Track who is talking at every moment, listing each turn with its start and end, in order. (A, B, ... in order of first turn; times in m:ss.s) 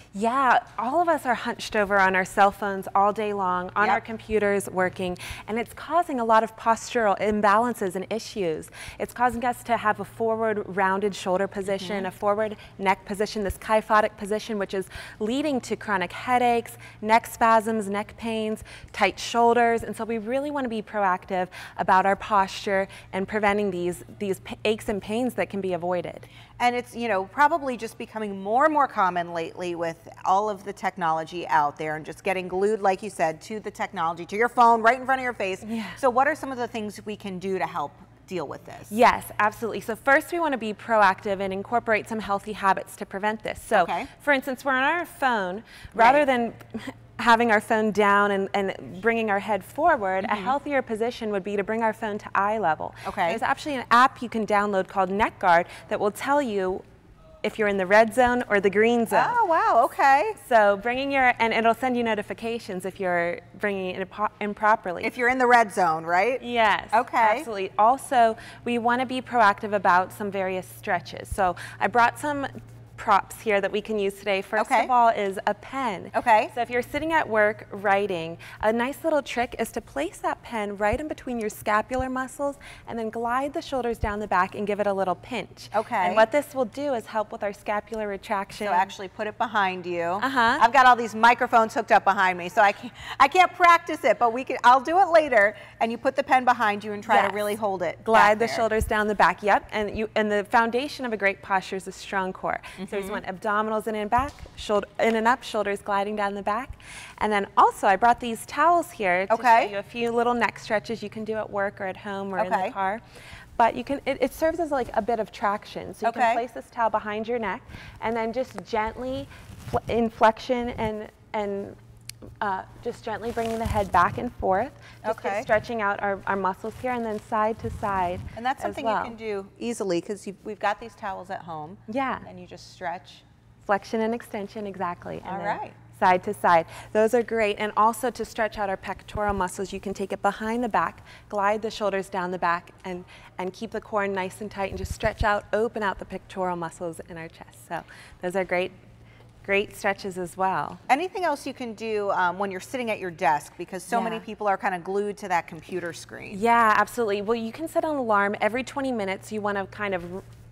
0:00.1-0:26.2 A
0:11.7-0:12.1 B
0:26.6-0:38.9 B
0:35.6-0:36.0 A
0:38.9-0:56.8 A
0:43.7-0:44.1 B
0:45.9-0:46.2 B
0:50.2-0:50.5 B
0:53.0-0:53.4 B
0:57.4-0:59.4 A
0:59.1-1:00.4 B
1:00.4-1:05.1 A
1:05.0-1:07.5 B
1:06.4-1:28.9 A
1:14.6-1:14.9 B
1:16.1-1:16.5 B
1:25.7-1:26.2 B
1:28.6-1:38.6 B
1:30.2-1:30.6 A
1:37.0-1:37.4 A
1:38.0-1:53.0 A
1:42.8-1:43.2 B
1:49.3-1:49.7 B
1:52.4-1:52.7 B
1:53.6-2:01.8 A
1:56.0-1:56.4 B
2:02.4-2:09.1 A
2:05.0-2:05.5 B
2:08.4-2:13.2 B
2:11.9-2:12.3 A
2:13.6-2:28.7 A
2:15.2-2:15.8 B
2:29.4-2:30.8 A
2:30.9-2:36.4 B
2:33.9-2:34.2 A
2:36.3-2:40.2 A